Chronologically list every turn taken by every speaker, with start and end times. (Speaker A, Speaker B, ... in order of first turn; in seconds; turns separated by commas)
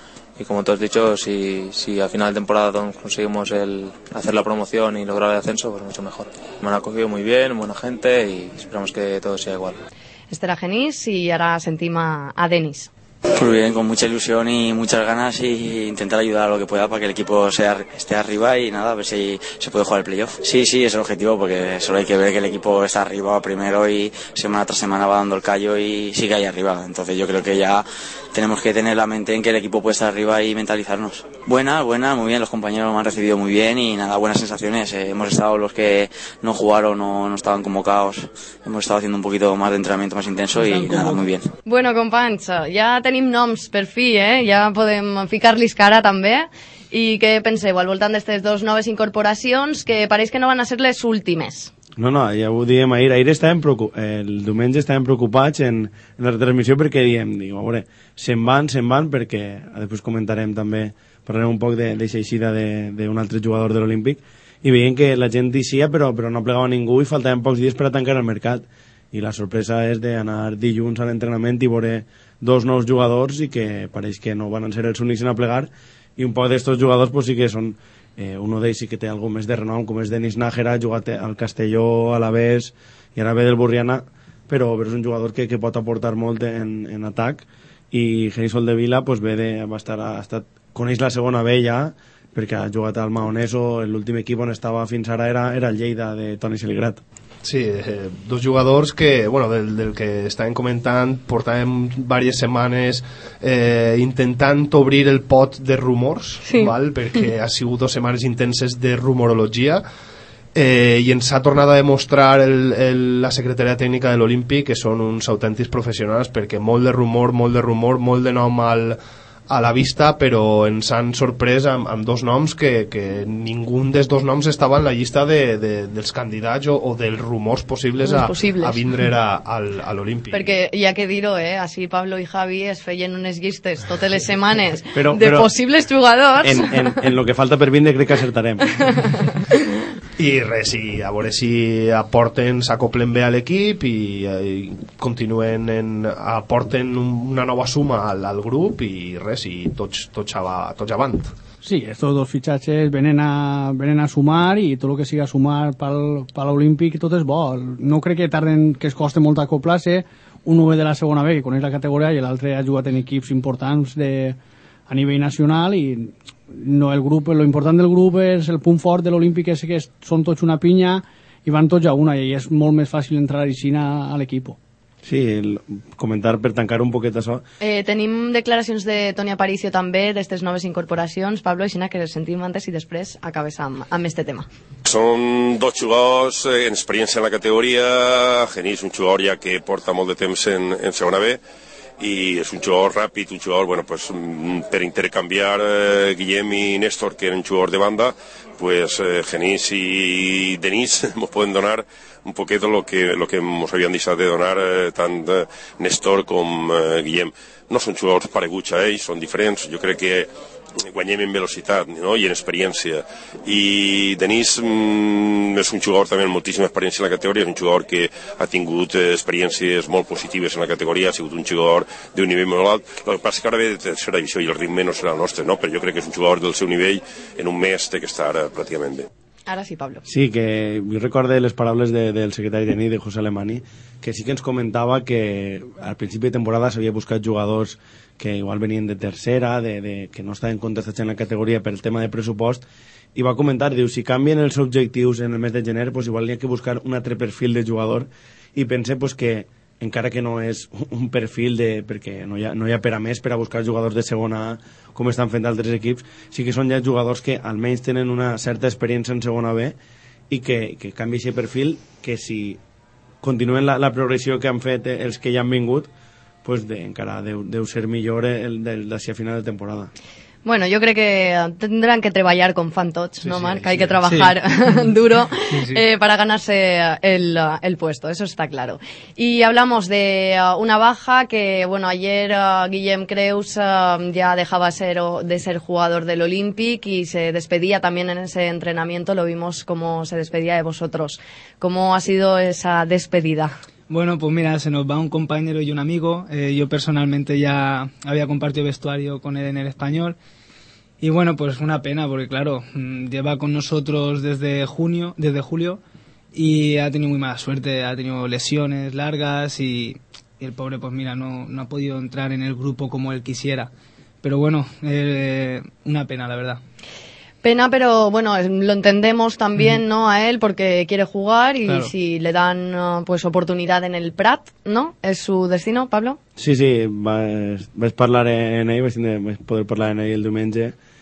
Speaker A: 0.4-9.8, Speaker B: 10.3-12.9, Speaker C: 13.3-41.5, Speaker D: 40.6-41.2, Speaker B: 41.6-51.7, Speaker E: 52.0-97.0, Speaker F: 97.4-109.8, Speaker B: 106.5-106.7, Speaker F: 110.5-119.0, Speaker F: 119.5-130.5, Speaker B: 128.0-128.8, Speaker B: 130.3-136.8, Speaker E: 134.9-135.5, Speaker E: 136.4-138.8, Speaker B: 138.8-139.4, Speaker F: 140.2-151.3, Speaker G: 151.6-164.4, Speaker G: 164.9-174.6, Speaker E: 175.0-177.4, Speaker B: 177.6-184.5, Speaker H: 184.8-191.4, Speaker H: 192.0-210.3, Speaker H: 210.8-229.1, Speaker B: 229.5-230.0, Speaker E: 230.1-242.6, Speaker E: 243.2-259.8, Speaker E: 260.3-262.6, Speaker E: 263.2-265.9, Speaker E: 266.4-269.9, Speaker B: 270.4-293.5, Speaker F: 273.2-274.0, Speaker D: 274.1-274.3, Speaker D: 275.5-275.8, Speaker D: 293.9-300.2, Speaker D: 301.0-305.8, Speaker D: 306.3-313.7, Speaker D: 314.2-316.6, Speaker B: 317.4-326.2, Speaker D: 321.7-321.9, Speaker E: 326.4-330.8